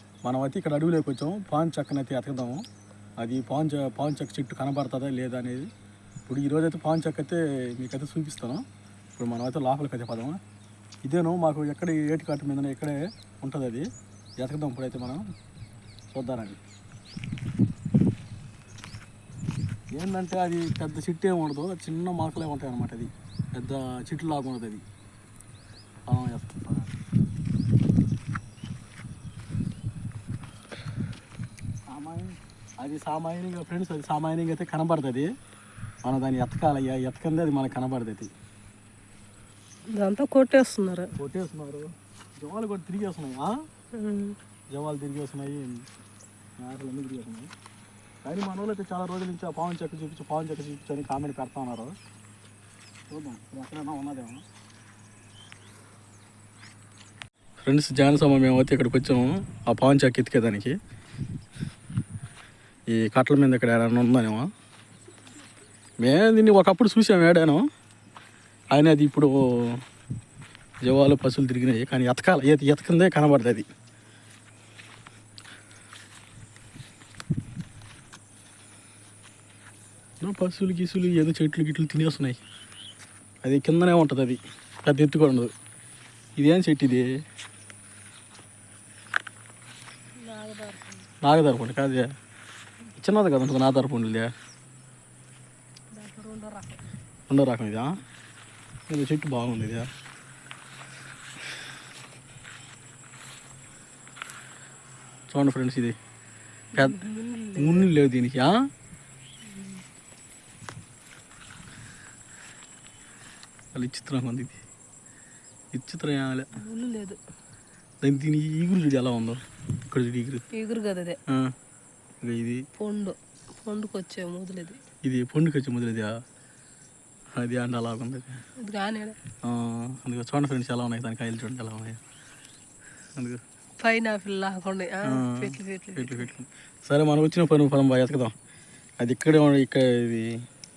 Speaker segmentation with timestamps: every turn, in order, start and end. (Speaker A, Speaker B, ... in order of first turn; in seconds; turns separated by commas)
Speaker A: 0.2-2.6, Speaker A: 3.2-5.7, Speaker A: 6.3-8.6, Speaker A: 9.2-10.4, Speaker A: 11.0-13.9, Speaker A: 14.4-15.2, Speaker A: 16.1-16.6, Speaker A: 19.9-24.8, Speaker A: 26.1-26.9, Speaker A: 31.9-35.3, Speaker A: 36.0-38.3, Speaker B: 39.9-41.1, Speaker A: 41.2-43.5, Speaker B: 43.9-44.4, Speaker A: 44.7-45.8, Speaker A: 46.6-47.5, Speaker A: 48.2-52.0, Speaker A: 53.1-54.4, Speaker A: 57.6-60.7, Speaker A: 62.9-64.5, Speaker A: 66.0-67.7, Speaker A: 68.7-69.8, Speaker A: 70.8-73.7, Speaker A: 80.2-82.4, Speaker A: 83.4-85.5, Speaker A: 86.4-87.1, Speaker B: 90.2-91.1, Speaker A: 91.2-92.1, Speaker A: 93.0-94.3, Speaker B: 95.9-96.8, Speaker A: 97.3-98.0, Speaker A: 98.9-99.9, Speaker A: 105.3-106.0, Speaker A: 106.8-107.0, Speaker B: 106.8-107.9, Speaker A: 107.6-108.5, Speaker B: 109.5-109.8, Speaker A: 113.7-114.6, Speaker A: 115.7-116.5, Speaker B: 116.5-117.2, Speaker A: 118.0-120.4, Speaker B: 120.5-121.2, Speaker A: 122.2-122.6, Speaker B: 122.8-124.8, Speaker A: 125.0-126.1, Speaker A: 127.4-128.4, Speaker B: 128.6-129.2, Speaker A: 129.4-132.0, Speaker B: 133.8-136.3, Speaker A: 135.0-138.3, Speaker A: 139.0-140.3